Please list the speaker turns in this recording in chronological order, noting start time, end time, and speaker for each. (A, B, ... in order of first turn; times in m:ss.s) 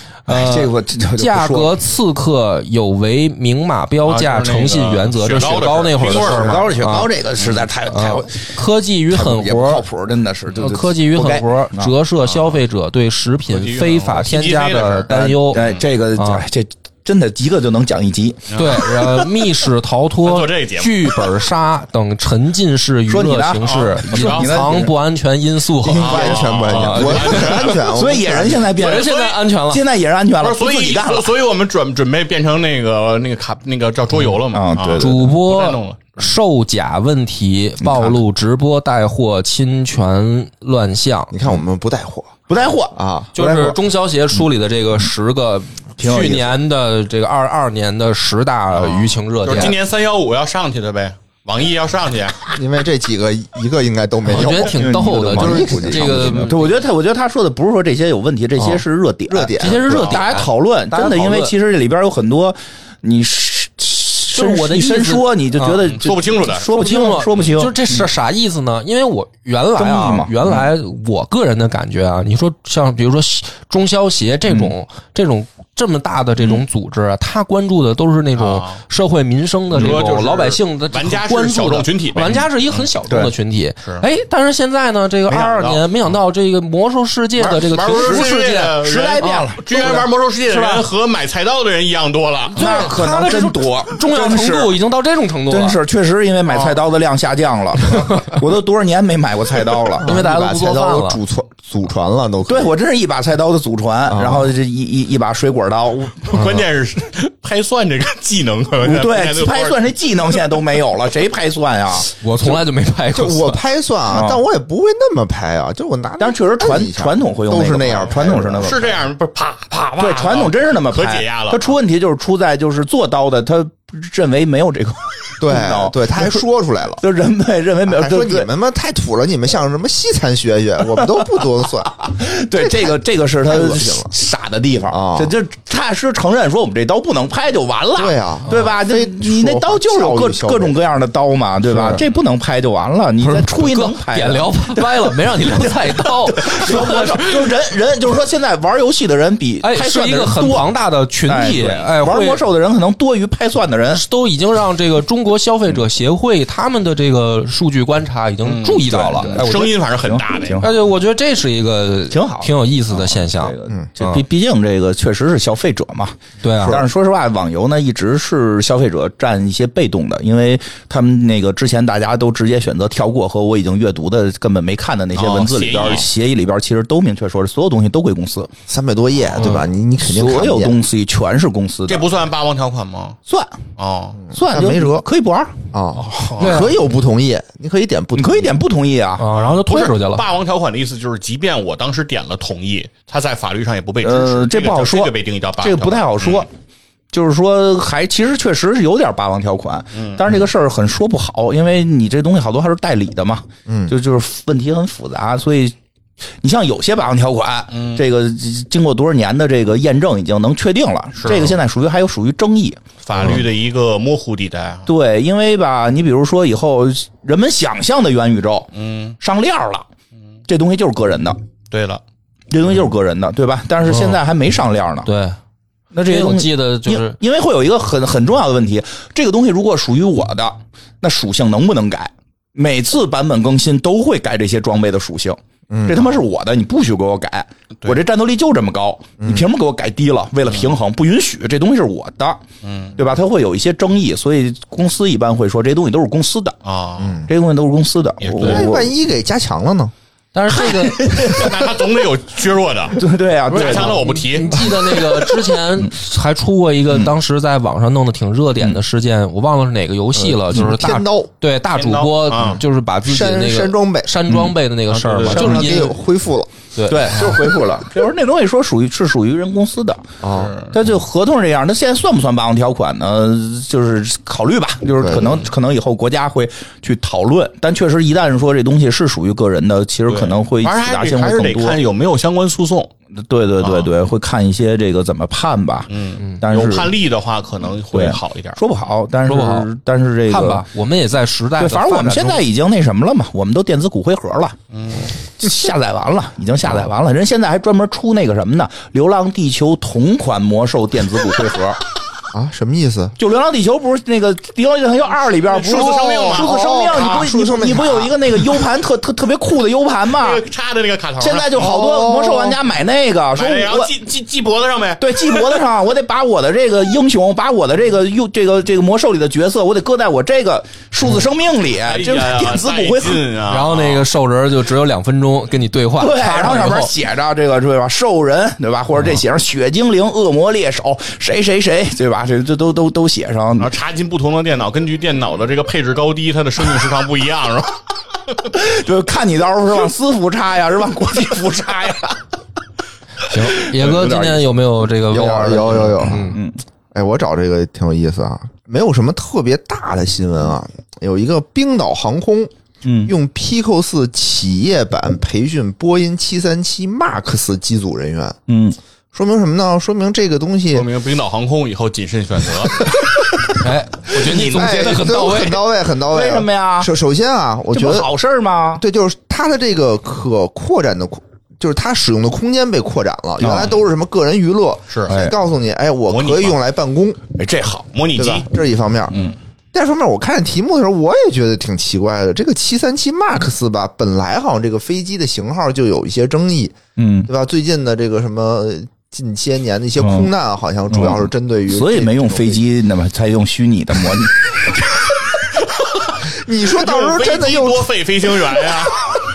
0:00.3-0:01.8 A
0:00.3-0:07.1 B
0:04.1-0:06.8 C
0:06.0-0:08.5 A
0:07.9-0:09.8 B
0:09.1-0:11.9 A
0:10.6-0:15.6 B
0:12.3-0:12.6 C
0:13.5-0:15.9 C
0:15.1-0:18.5 A
0:16.2-0:16.4 B
0:18.5-0:19.3 C
0:18.5-0:26.4 B
0:20.2-0:21.2 C
0:23.1-0:24.9 A
0:23.6-0:24.6 C
0:25.8-0:28.7 D
0:25.9-0:29.1 A
0:26.0-0:28.0 C
0:27.0-0:27.7 B
0:28.6-0:29.4 C
0:28.8-0:29.8 B
0:29.7-0:31.3 A
0:30.4-0:36.2 C
0:34.5-0:35.2 A
0:35.0-0:41.3 B
0:41.3-0:42.4 D
0:42.5-0:43.0 A
0:42.9-0:43.8 D
0:43.4-0:49.8 B
0:46.0-0:46.6 A
0:48.8-0:52.4 C
0:52.5-0:56.5 D
0:54.3-0:56.7 B
0:54.7-1:08.1 A
0:59.3-1:00.2 D
0:59.6-1:01.6 B
1:04.3-1:05.8 B
1:05.6-1:06.7 C
1:06.8-1:30.9 B
1:09.8-1:10.7 A
1:14.5-1:14.7 A
1:18.4-1:18.8 C
1:19.7-1:20.0 A
1:19.8-1:22.9 C
1:25.3-1:25.8 C
1:27.4-1:32.9 C
1:27.9-1:30.0 A
1:32.6-1:35.8 B
1:32.6-1:34.8 A
1:35.5-1:40.2 A
1:36.5-1:36.8 C
1:40.0-1:41.2 B
1:40.0-1:42.7 D
1:42.5-1:46.5 A
1:44.1-1:44.5 D
1:46.2-1:49.8 C
1:48.8-1:52.1 A
1:52.2-1:53.6 B
1:53.1-1:58.9 D
1:54.1-1:54.4 A
1:56.2-1:59.0 A
1:57.9-2:01.8 C
2:00.0-2:06.4 A
2:05.4-2:07.0 D
2:07.0-2:08.5 A
2:07.9-2:14.1 D
2:11.0-2:30.7 A
2:14.9-2:15.3 D
2:18.0-2:20.8 D
2:21.7-2:22.0 B
2:23.2-2:27.5 B
2:29.6-2:32.4 B
2:31.3-2:34.0 A
2:33.9-2:39.5 B
2:38.4-2:40.6 C
2:38.8-2:40.8 A
2:40.6-2:44.2 B
2:42.1-2:58.5 A
2:46.4-2:46.8 B
2:55.2-2:56.1 C
2:58.7-3:00.8 D
2:59.3-2:59.6 C
2:59.4-3:02.1 A
3:01.9-3:03.2 C
3:03.3-3:03.6 A
3:03.8-3:04.2 C
3:04.3-3:05.6 A
3:04.3-3:05.1 D
3:05.7-3:08.6 D
3:06.1-3:06.7 C
3:06.4-3:06.7 B
3:08.2-3:09.3 A
3:09.2-3:10.2 B
3:09.3-3:16.5 C
3:14.0-3:16.5 A
3:17.1-3:25.8 A
3:19.9-3:20.2 C
3:23.7-3:23.9 D
3:26.4-3:33.4 A
3:27.7-3:28.0 C
3:31.2-3:31.6 C
3:33.0-3:34.9 C
3:34.9-3:39.9 A
3:38.7-3:39.2 C
3:40.5-3:41.4 A
3:41.7-3:42.0 C
3:42.5-3:45.1 A
3:43.9-3:44.2 B
3:45.0-3:45.4 B
3:45.9-4:02.4 A
3:46.0-3:47.2 B
3:55.7-3:56.1 D
3:59.2-3:59.5 D
4:00.5-4:00.8 C
4:02.6-4:03.0 C
4:03.0-4:06.6 A
4:06.6-4:07.2 C
4:07.0-4:07.3 D
4:07.3-4:08.9 A
4:08.2-4:08.7 C
4:08.4-4:09.9 D
4:10.3-4:11.2 B
4:10.5-4:11.8 A
4:11.2-4:14.7 C
4:13.0-4:15.9 A
4:13.6-4:26.0 B
4:20.2-4:21.3 D
4:21.8-4:22.6 C
4:23.0-4:24.1 D
4:24.9-4:25.6 C
4:25.3-4:25.8 A
4:25.3-4:26.5 D
4:26.8-4:27.2 B
4:26.9-4:30.0 A
4:30.2-4:30.5 D
4:30.3-4:30.7 C
4:30.7-4:41.8 A
4:35.0-4:35.4 D
4:35.1-4:35.5 C
4:40.1-4:42.9 C
4:43.1-4:45.9 A
4:43.6-4:43.9 C
4:45.9-4:48.6 C
4:46.4-4:46.9 A
4:47.9-4:50.7 A
4:49.3-4:49.7 B
4:50.3-4:52.4 B
4:51.6-4:54.6 A
4:54.7-4:55.1 C
4:55.4-5:01.8 A
5:02.3-5:03.2 D
5:03.2-5:10.4 A
5:05.4-5:07.3 C
5:05.7-5:08.2 D
5:10.1-5:11.8 C
5:11.2-5:13.9 A
5:11.6-5:12.6 D
5:13.4-5:15.7 C
5:15.0-5:23.3 A
5:21.8-5:24.1 C
5:23.5-5:26.9 B
5:26.0-5:33.7 A
5:33.6-5:37.8 C
5:38.4-5:42.2 A
5:43.2-5:46.4 B
5:43.3-5:44.5 A
5:45.1-5:46.4 D
5:45.6-5:46.6 A
5:46.9-5:52.5 D
5:52.8-5:53.1 A
5:53.0-5:58.4 D
5:58.5-5:58.8 A
5:59.1-6:00.9 D
6:00.7-6:03.0 C
6:02.9-6:03.4 D
6:03.5-6:05.6 B
6:04.1-6:05.5 A
6:04.3-6:08.1 D
6:06.1-6:06.9 A
6:07.7-6:08.8 A
6:08.8-6:17.2 D
6:13.4-6:13.8 A
6:14.9-6:15.2 C
6:15.1-6:15.4 A
6:16.1-6:16.6 C
6:17.4-6:17.9 A
6:17.9-6:18.5 C
6:18.2-6:32.6 D
6:27.0-6:27.3 A
6:30.0-6:30.3 A
6:30.9-6:34.9 A
6:36.2-6:37.9 D
6:36.7-6:39.1 C